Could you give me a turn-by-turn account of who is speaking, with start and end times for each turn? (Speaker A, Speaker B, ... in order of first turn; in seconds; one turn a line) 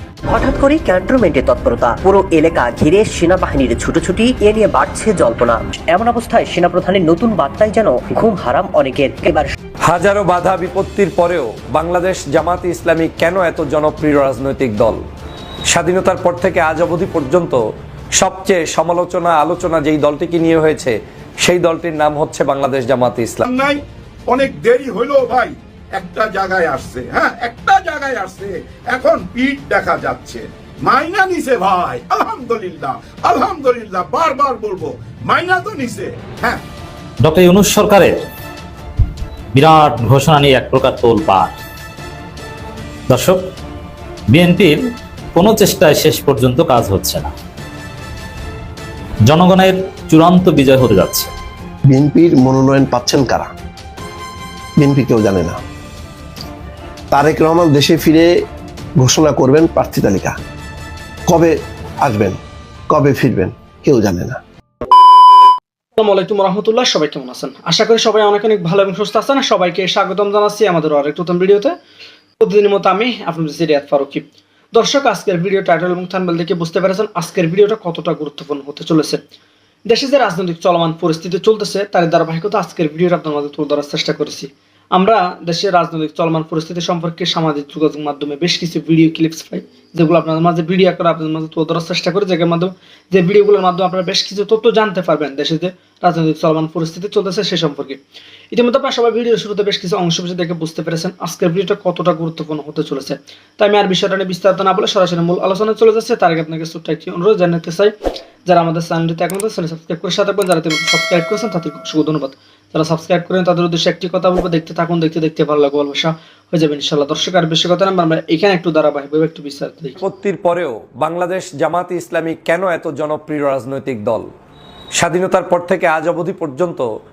Speaker A: 0.3-9.5
Speaker B: 9.9-15.0
Speaker B: 15.7-17.6
Speaker B: 18.2-23.4
Speaker C: 23.4-36.6
Speaker D: 37.2-38.2
Speaker D: 39.5-41.5
Speaker D: 43.1-43.4
Speaker D: 44.3-44.8
Speaker D: 45.3-47.3
Speaker D: 49.3-51.3
Speaker E: 51.9-53.5
Speaker E: 54.8-55.6
Speaker E: 57.1-58.3
Speaker E: 59.0-60.3
Speaker E: 61.3-62.4
Speaker E: 62.9-64.4
Speaker F: 66.0-71.7
Speaker F: 72.4-79.2
Speaker F: 79.9-98.0
Speaker F: 98.5-107.9
Speaker F: 108.5-120.0
Speaker B: 120.0-124.2
Speaker B: 125.0-126.8